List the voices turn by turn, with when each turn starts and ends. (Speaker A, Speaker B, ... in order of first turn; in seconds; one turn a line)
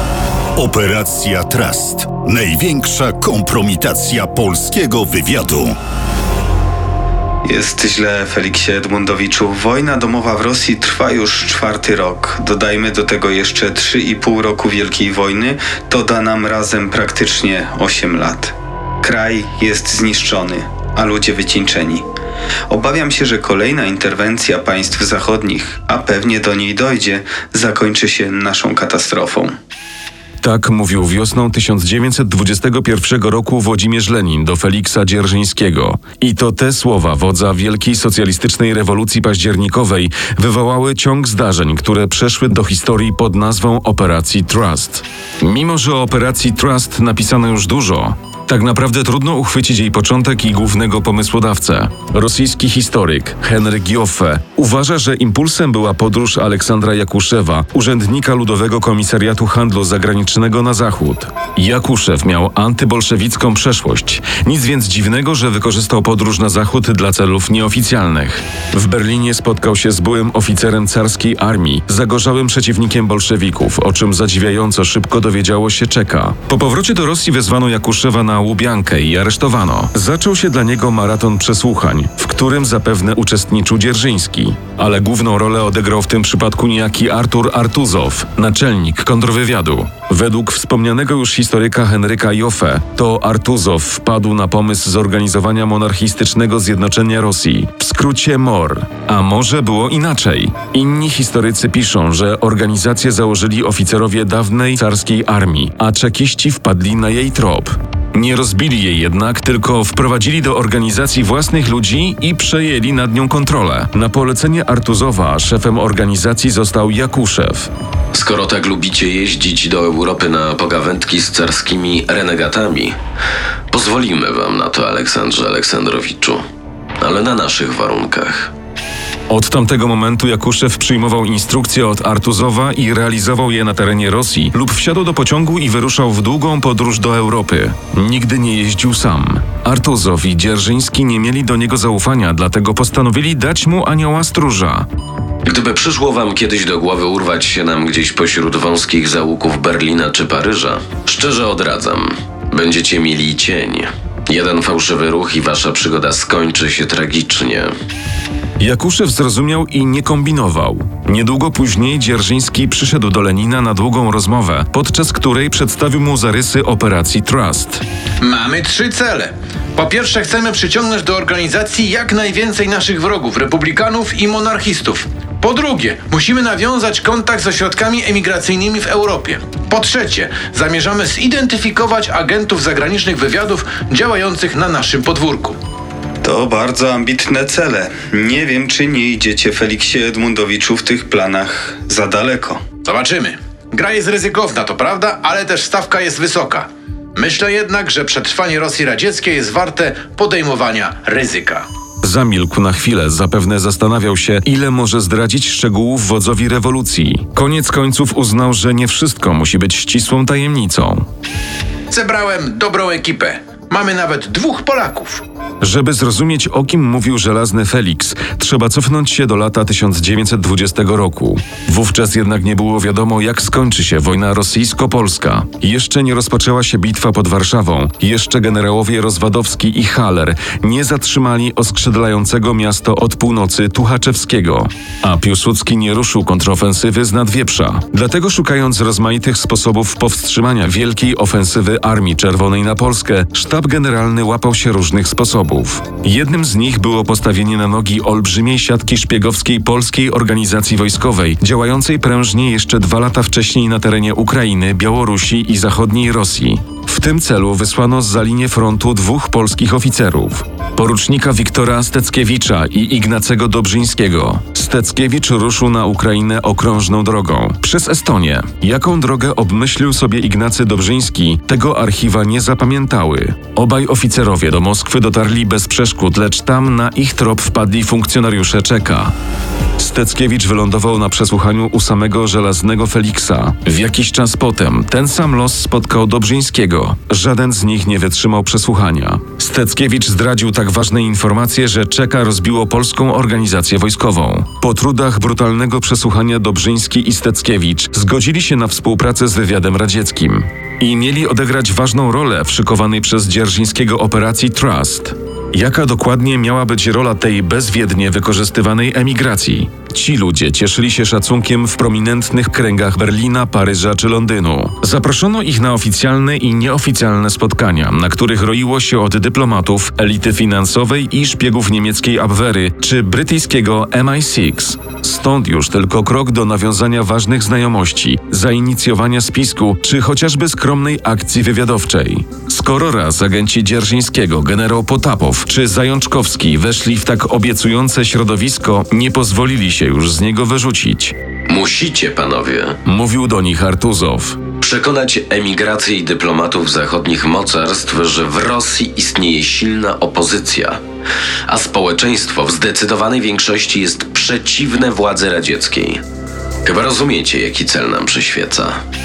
Speaker A: 0.6-5.7
Speaker B: 7.4-22.0
Speaker B: 22.7-29.5
Speaker C: 30.4-117.7
Speaker D: 118.1-123.0
Speaker D: 123.7-126.4
Speaker D: 127.0-128.5
Speaker C: 129.3-144.9
Speaker D: 145.4-157.7
Speaker C: 158.6-167.8
Speaker E: 168.2-185.6
Speaker B: 186.2-192.6
Speaker E: 192.8-201.7
Speaker C: 202.0-211.1
Speaker E: 211.9-215.2
Speaker C: 215.6-279.1
Speaker C: 279.8-341.1
Speaker D: 341.5-342.8
Speaker C: 342.8-344.4
Speaker D: 344.6-350.8
Speaker D: 351.5-356.0
Speaker D: 356.6-358.8